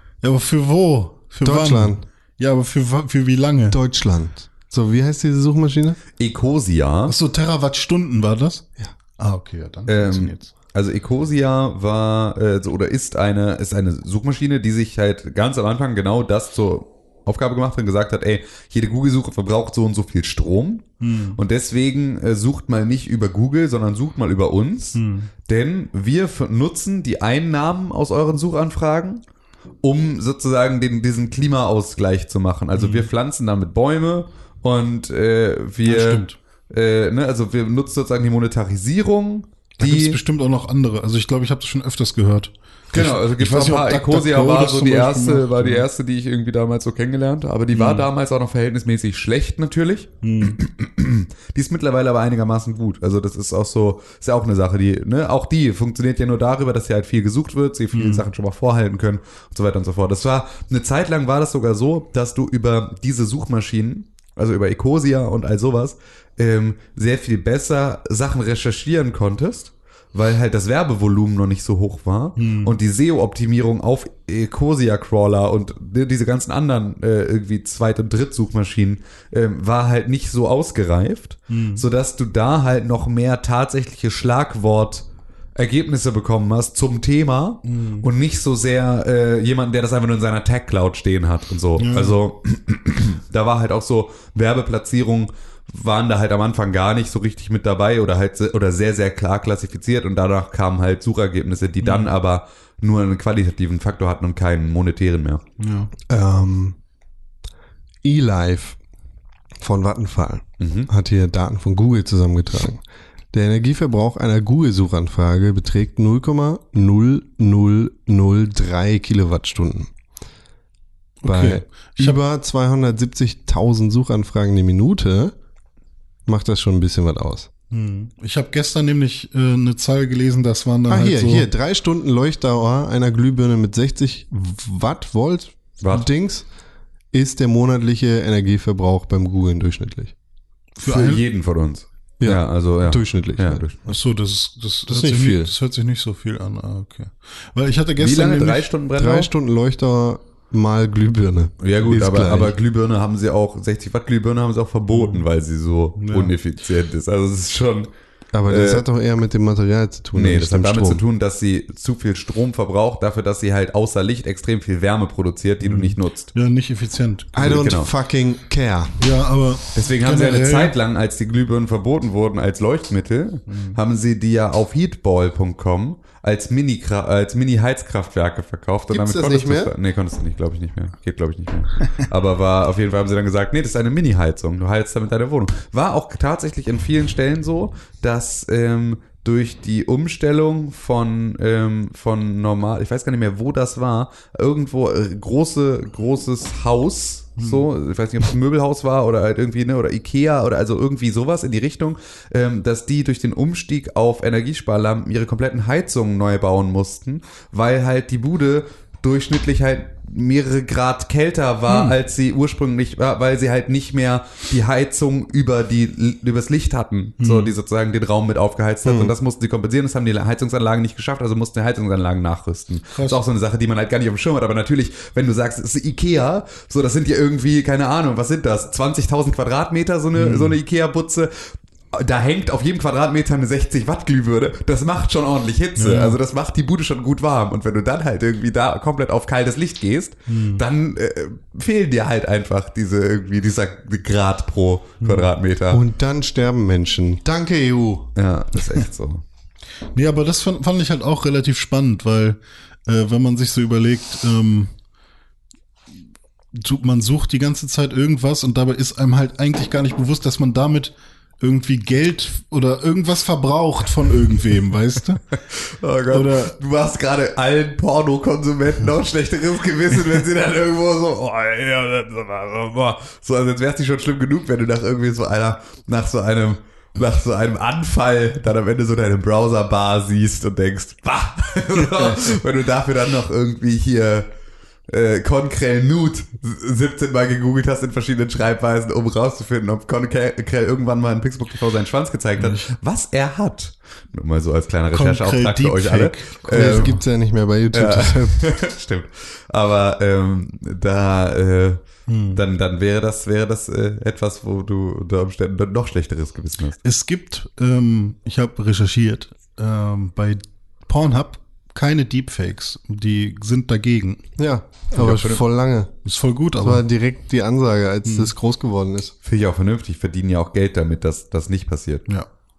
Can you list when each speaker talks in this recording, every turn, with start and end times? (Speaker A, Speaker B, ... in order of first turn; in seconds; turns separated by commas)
Speaker A: 0.2-3.8, Speaker B: 1.4-2.0, Speaker B: 3.7-6.0, Speaker C: 6.2-7.1, Speaker A: 7.1-8.6, Speaker A: 9.2-10.5, Speaker C: 9.9-29.2, Speaker A: 21.0-21.4, Speaker A: 24.9-25.3, Speaker C: 29.8-40.2, Speaker A: 32.7-33.1, Speaker A: 35.8-36.4, Speaker A: 39.8-45.9, Speaker C: 42.9-105.4, Speaker A: 47.7-48.1, Speaker A: 50.2-50.6, Speaker A: 57.9-58.2, Speaker A: 72.4-72.8, Speaker A: 81.5-81.8, Speaker A: 87.6-88.1, Speaker A: 91.8-92.2, Speaker A: 101.8-102.1, Speaker A: 105.6-105.9, Speaker B: 106.1-106.8, Speaker B: 108.0-108.8, Speaker B: 109.6-119.9, Speaker C: 110.6-110.9, Speaker A: 121.2-122.2, Speaker B: 121.2-125.3, Speaker B: 126.2-127.5, Speaker A: 127.7-131.5, Speaker B: 130.9-136.4, Speaker C: 135.8-136.1, Speaker B: 137.1-140.1, Speaker A: 140.8-141.2, Speaker C: 140.8-143.9, Speaker B: 142.2-143.6, Speaker A: 143.8-148.7, Speaker B: 144.9-145.5, Speaker C: 148.0-149.3, Speaker B: 149.0-152.6, Speaker C: 151.6-157.9, Speaker A: 154.9-155.2, Speaker A: 156.0-156.3, Speaker B: 158.3-161.0, Speaker C: 158.5-158.8, Speaker C: 160.1-166.3, Speaker A: 165.6-167.5, Speaker B: 167.3-168.9, Speaker C: 167.4-167.9, Speaker A: 169.0-170.7, Speaker C: 169.7-245.8, Speaker A: 173.5-173.8, Speaker B: 178.9-179.7, Speaker A: 197.4-197.7, Speaker A: 211.7-211.9, Speaker A: 217.2-217.5, Speaker B: 218.8-219.1, Speaker A: 222.9-223.2, Speaker A: 230.1-230.6, Speaker A: 235.8-236.2, Speaker A: 240.3-240.6, Speaker A: 245.0-245.3, Speaker B: 245.7-248.1, Speaker C: 248.2-249.2, Speaker A: 249.9-254.7, Speaker A: 256.5-265.2, Speaker C: 265.5-284.3, Speaker A: 266.1-266.5, Speaker C: 284.9-296.9, Speaker A: 292.4-292.6, Speaker A: 294.9-297.0, Speaker B: 296.5-298.4, Speaker C: 297.7-301.8, Speaker A: 302.1-302.4, Speaker C: 302.3-306.8, Speaker A: 306.8-314.2, Speaker B: 314.4-315.9, Speaker C: 314.9-315.4, Speaker A: 316.0-316.8, Speaker B: 316.6-319.1, Speaker A: 318.0-318.3, Speaker C: 319.2-322.1